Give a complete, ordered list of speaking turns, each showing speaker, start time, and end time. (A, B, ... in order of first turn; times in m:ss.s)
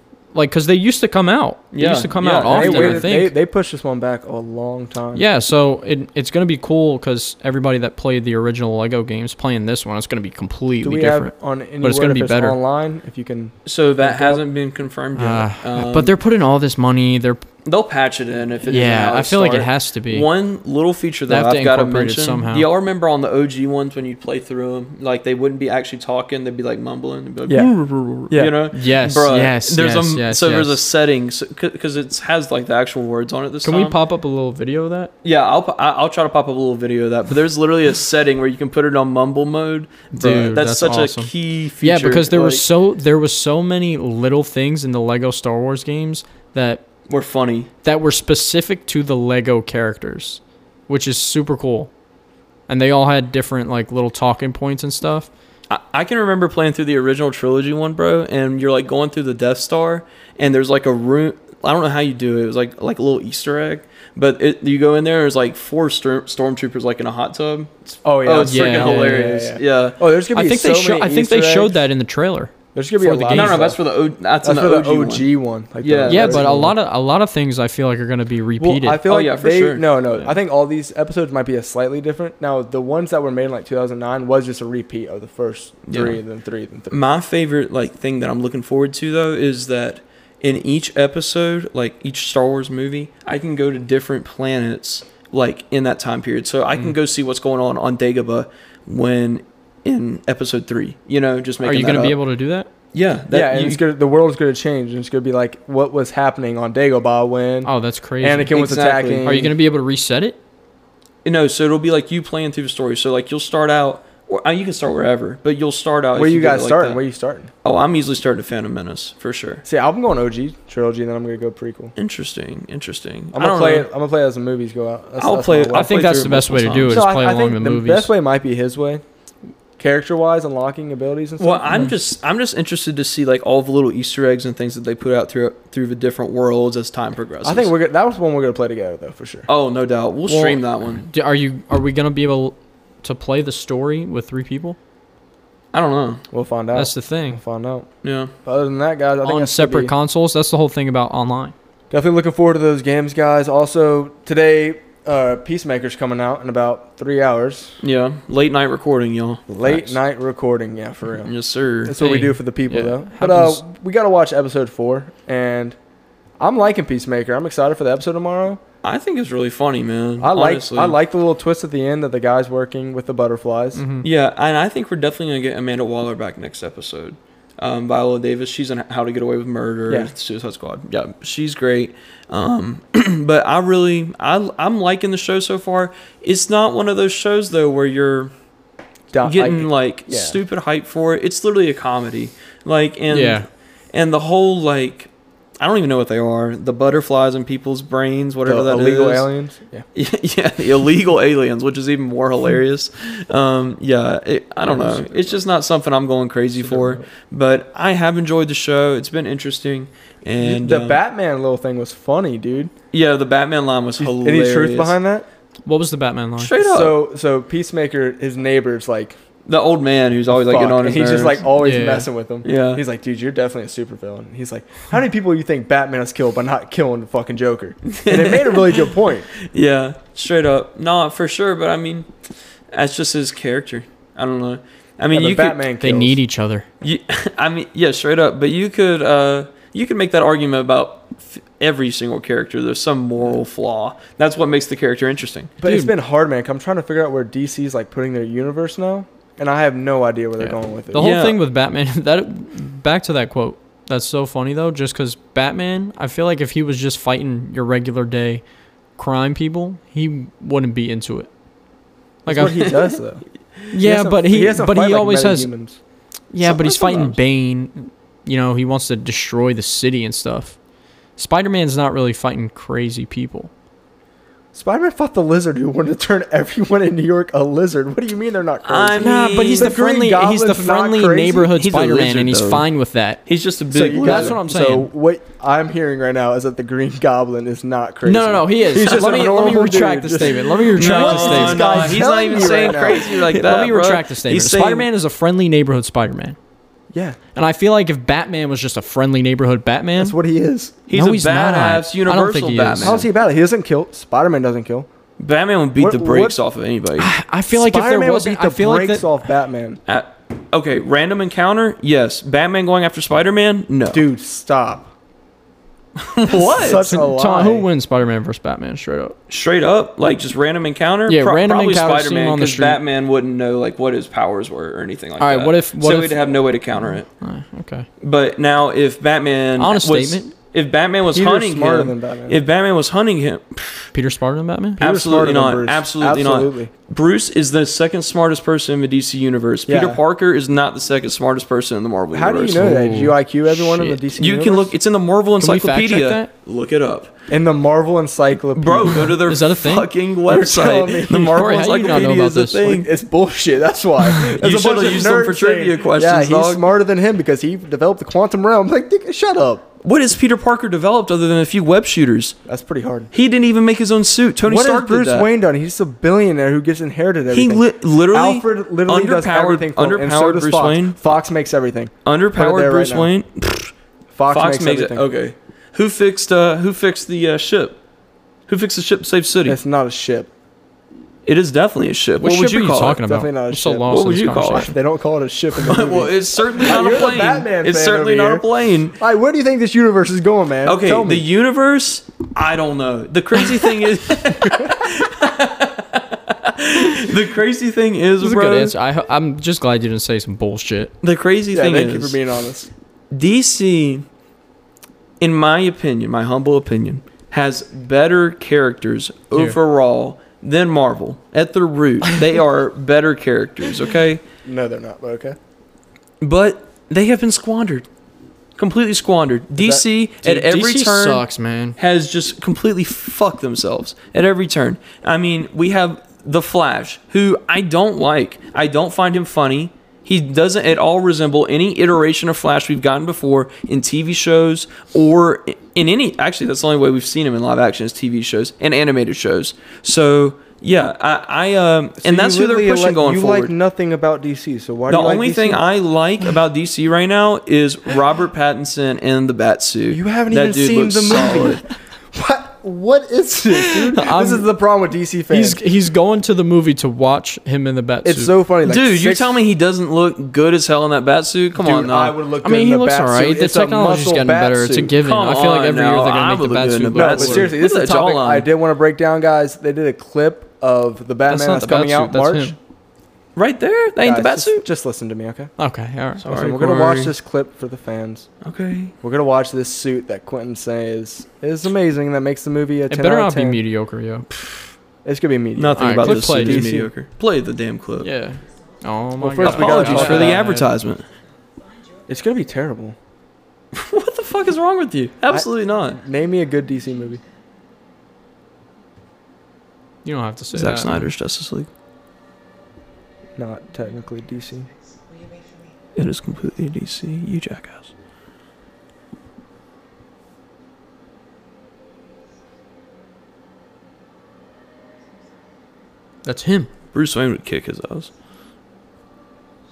0:00.3-0:03.3 A
0:01.7-0:03.1 B
0:02.4-0:05.2 C
0:05.1-0:12.6 A
0:10.8-0:14.4 C
0:13.6-0:16.1 B
0:15.2-0:17.4 A
0:17.6-0:27.7 B
0:18.7-0:20.3 A
0:21.3-0:22.7 A
0:27.5-0:28.6 C
0:27.5-0:30.8 A
0:28.3-0:34.0 B
0:33.6-0:35.1 A
0:35.2-0:42.6 B
0:40.1-0:46.8 A
0:47.1-0:47.7 B
0:47.8-0:51.9 A
0:52.7-0:55.3 A
0:55.7-1:10.0 B
1:08.0-1:11.8 C
1:08.4-1:09.3 A
1:10.3-1:13.7 A
1:12.7-1:13.8 C
1:13.3-1:15.3 B
1:14.4-1:16.8 C
1:15.8-1:16.5 B
1:16.1-1:19.0 A
1:18.6-1:27.0 C
1:19.0-1:19.9 B
1:25.9-1:26.2 B
1:26.9-1:42.2 B
1:41.6-1:42.7 A
1:42.9-1:43.8 B
1:43.3-1:49.5 C
1:47.6-1:48.6 A
1:48.5-1:49.3 B
1:49.2-1:50.4 A
1:51.2-1:57.0 B
1:56.1-1:57.5 C
1:57.6-1:59.6 B
1:59.6-2:01.9 C
2:02.0-2:03.9 B
2:03.3-2:05.9 C
2:05.2-2:07.0 B
2:05.7-2:08.1 A
2:06.9-2:09.0 C
2:09.8-2:11.8 C
2:11.4-2:17.7 B
2:17.4-2:19.5 C
2:19.5-2:21.0 B
2:20.3-2:24.8 A
2:25.7-2:26.2 B
2:26.3-2:27.9 C
2:26.8-2:27.4 A
2:28.0-2:28.3 B
2:28.4-2:29.9 C
2:29.2-2:31.5 A
2:31.9-2:37.8 C
2:37.8-2:40.0 B
2:39.5-2:41.3 C
2:41.2-2:42.0 B
2:41.8-2:45.8 C
2:42.0-2:43.6 A
2:46.4-2:48.6 C
2:48.8-2:51.0 B
2:50.2-2:53.8 C
2:53.8-2:54.1 A
2:54.0-3:08.3 B
3:09.1-3:10.4 C
3:09.2-3:19.3 B
3:13.1-3:13.4 A
3:18.5-3:19.9 C
3:20.0-3:31.0 B
3:24.6-3:25.4 C
3:26.6-3:27.0 C
3:30.4-3:32.7 C
3:32.9-3:35.0 B
3:34.0-3:35.3 C
3:35.6-3:36.6 A
3:36.4-3:37.0 B
3:36.6-3:39.2 C
3:39.5-3:41.5 B
3:40.3-3:49.3 C
3:41.6-3:42.1 A
3:42.4-3:42.8 B
3:47.9-3:52.1 B
3:52.7-3:55.6 B
3:55.1-3:56.2 C
3:55.8-3:56.6 A
3:56.8-4:05.5 B
4:05.6-4:11.1 C
4:05.6-4:05.9 A
4:10.4-4:18.4 A
4:11.0-4:11.4 B
4:19.0-4:21.3 A
4:22.3-4:23.0 A
4:22.3-4:23.2 C
4:23.7-4:25.5 A
4:23.8-4:25.8 C
4:26.3-4:30.6 A
4:26.4-4:27.2 B
4:31.2-4:33.5 A
4:34.5-4:41.5 C
4:38.6-4:39.8 B
4:39.0-4:43.2 A
4:41.5-4:42.6 B
4:43.3-4:44.4 B
4:43.7-4:53.1 C
4:44.0-4:44.9 A
4:48.0-4:56.4 A
4:48.8-4:49.3 B
4:50.7-4:54.9 B
4:56.9-4:57.2 C
4:57.4-5:00.2 A
5:00.0-5:00.8 C
5:00.9-5:03.0 B
5:00.9-5:03.0 A
5:02.8-5:04.9 C
5:05.2-5:07.1 B
5:05.8-5:06.4 C
5:07.0-5:09.1 A
5:07.5-5:09.8 C
5:09.9-5:14.0 B
5:13.9-5:14.9 C
5:16.0-5:16.9 B
5:16.3-5:17.7 C
5:16.7-5:19.2 A
5:19.3-5:27.1 B
5:21.1-5:22.8 A
5:25.2-5:27.9 A
5:28.0-5:33.9 B
5:29.6-5:30.3 A
5:31.1-5:32.4 C
5:33.9-5:34.8 A
5:34.8-5:42.8 B
5:34.8-5:36.7 C
5:39.7-5:40.0 C
5:42.1-5:44.7 C
5:42.6-5:44.0 A
5:43.9-5:47.1 B
5:45.4-5:46.3 A
5:47.3-5:49.2 C
5:48.6-5:52.9 B
5:49.2-5:49.9 A
5:50.3-5:59.6 C
5:51.1-5:52.7 A
5:54.3-5:56.6 B
5:59.8-6:02.4 B
6:02.5-6:03.1 C
6:03.1-6:05.3 B
6:04.5-6:13.1 C
6:07.3-6:11.0 B
6:12.0-6:13.7 B
6:14.1-6:15.1 C
6:14.3-6:17.8 B
6:18.5-6:19.6 B
6:19.4-6:20.3 C
6:21.2-6:23.0 B
6:22.2-6:24.7 A
6:23.0-6:24.0 C
6:23.9-6:24.7 B
6:24.6-6:31.2 C
6:25.5-6:29.0 B
6:30.6-6:38.8 B
6:38.2-6:40.9 A
6:41.0-6:42.2 B
6:41.5-6:42.7 C
6:43.1-6:44.1 B
6:45.2-6:54.2 B
6:54.4-6:55.4 C
6:56.2-6:57.9 B
6:58.6-7:01.2 B
6:59.6-6:59.8 C
7:00.2-7:01.8 A
7:01.8-7:23.5 B
7:22.0-7:25.6 C
7:24.9-7:31.6 B
7:29.9-7:35.6 C
7:34.0-7:34.3 A
7:34.0-7:34.3 B
7:35.3-7:38.3 A
7:38.0-7:39.4 C
7:38.6-7:42.2 B
7:41.6-7:44.9 C
7:42.4-7:47.5 A
7:45.0-7:48.5 B
7:46.9-7:52.6 C
7:51.3-7:52.6 A
7:53.4-7:54.7 B
7:54.0-7:55.5 C
7:55.6-7:56.3 A
7:56.2-7:57.1 B
7:56.2-7:58.3 C
7:58.4-7:58.9 B
7:59.0-8:03.6 C
8:02.9-8:04.3 A
8:05.0-8:06.9 C
8:05.6-8:08.1 B
8:05.8-8:06.8 A
8:08.0-8:10.7 A
8:09.2-8:10.4 C
8:09.4-8:11.1 B
8:12.1-8:13.0 C
8:13.7-8:16.0 B
8:15.3-8:17.2 C
8:20.0-8:21.0 A
8:20.5-8:21.7 B
8:23.4-8:24.7 C
8:26.0-8:27.9 B
8:36.2-8:36.7 A
8:36.9-8:38.1 B